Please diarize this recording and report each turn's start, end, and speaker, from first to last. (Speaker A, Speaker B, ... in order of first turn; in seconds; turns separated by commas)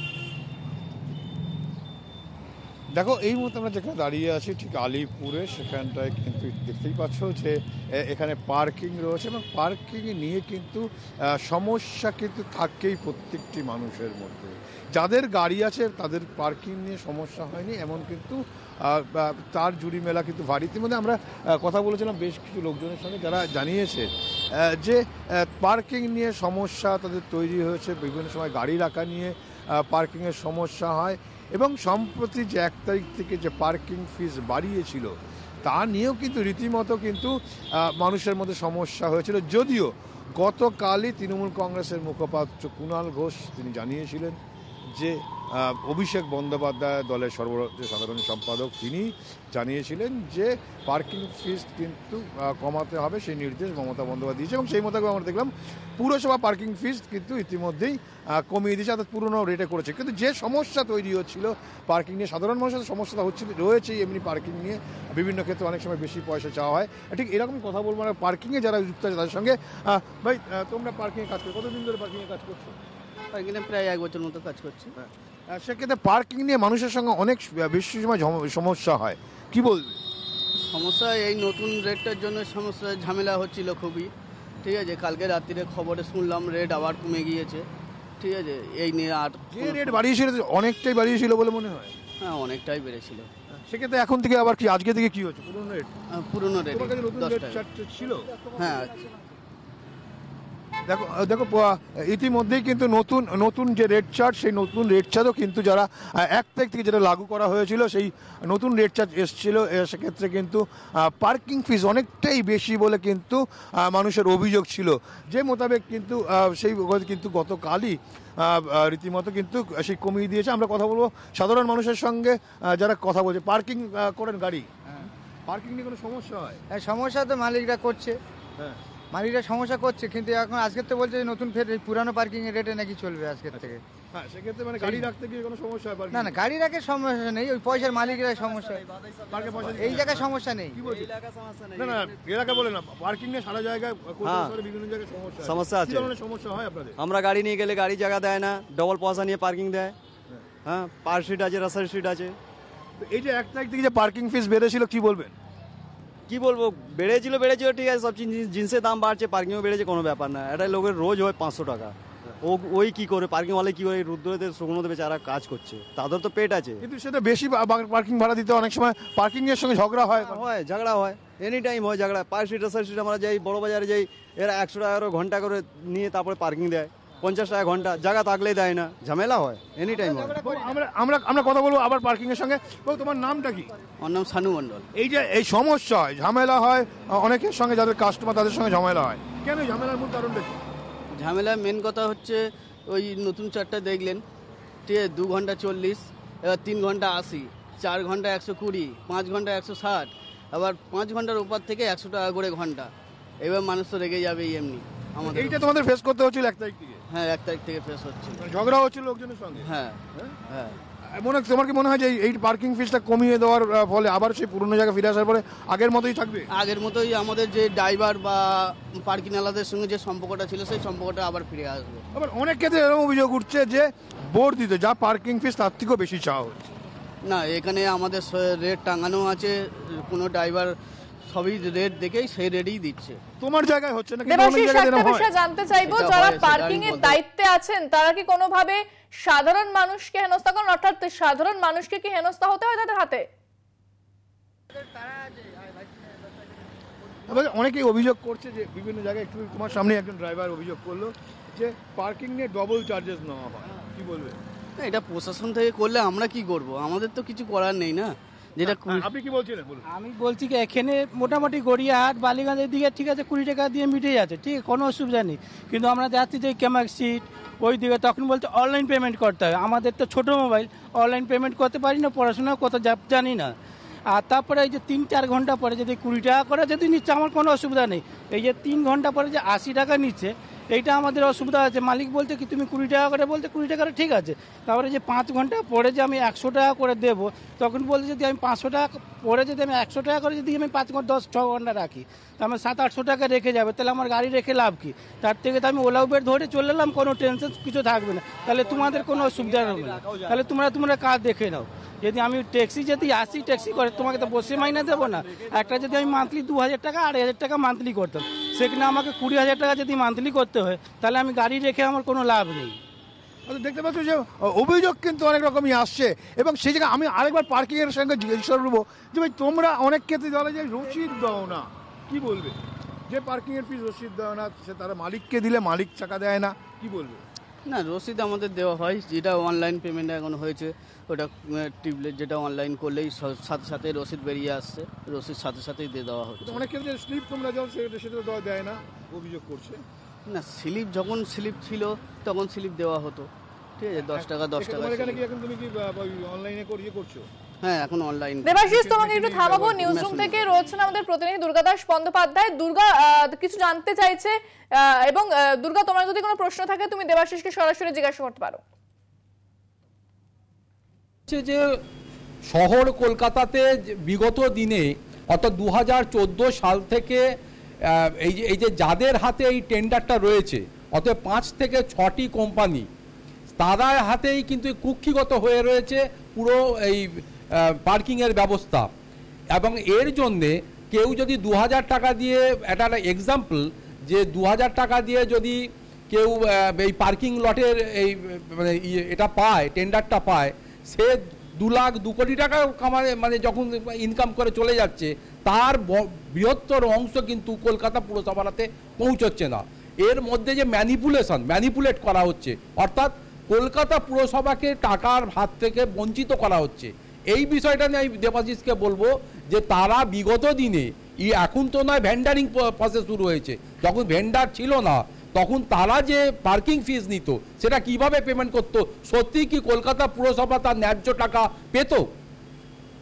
Speaker A: 3.0-35.1, Speaker A: 35.6-44.4, Speaker A: 44.9-72.8, Speaker B: 73.3-74.9, Speaker A: 75.0-80.0, Speaker B: 80.6-84.1, Speaker B: 84.6-87.7, Speaker B: 88.2-90.0, Speaker A: 89.5-91.9, Speaker B: 92.2-93.3, Speaker A: 93.7-95.9, Speaker B: 96.1-97.6, Speaker A: 96.7-98.4, Speaker B: 98.5-99.2, Speaker A: 100.9-124.8, Speaker A: 125.5-126.6, Speaker C: 126.7-128.2, Speaker C: 129.1-133.8, Speaker A: 133.5-136.4, Speaker C: 134.8-135.1, Speaker C: 136.1-138.8, Speaker D: 137.8-142.1, Speaker A: 139.3-141.1, Speaker C: 139.6-140.8, Speaker A: 141.7-147.0, Speaker D: 144.2-144.6, Speaker D: 145.4-146.1, Speaker D: 147.0-149.9, Speaker D: 150.6-152.3, Speaker A: 153.0-155.3, Speaker D: 156.3-166.8, Speaker A: 166.8-170.4, Speaker D: 170.2-180.5, Speaker A: 180.3-183.7, Speaker B: 184.0-184.9, Speaker A: 184.9-190.5, Speaker B: 191.1-194.2, Speaker B: 194.8-205.7, Speaker A: 205.2-207.0, Speaker B: 207.1-208.5, Speaker A: 208.4-209.7, Speaker B: 209.6-210.8, Speaker A: 211.1-216.5, Speaker B: 216.5-222.0, Speaker A: 222.1-226.7, Speaker B: 227.2-230.7, Speaker B: 231.2-233.2, Speaker A: 233.4-235.3, Speaker E: 234.3-243.2, Speaker B: 235.8-237.2, Speaker A: 247.3-254.4, Speaker B: 254.8-259.1, Speaker A: 258.6-259.8, Speaker F: 259.9-273.5, Speaker F: 274.1-312.8, Speaker A: 313.4-322.6, Speaker A: 323.1-327.2, Speaker B: 327.6-336.6, Speaker A: 336.4-339.8, Speaker B: 340.2-345.2, Speaker A: 344.1-347.2, Speaker B: 347.6-348.6, Speaker E: 348.4-358.6, Speaker A: 348.7-350.0, Speaker B: 349.7-350.3, Speaker G: 361.3-361.6, Speaker G: 362.5-367.2, Speaker G: 367.9-372.9, Speaker G: 373.5-378.9, Speaker G: 379.6-385.6, Speaker G: 386.1-422.1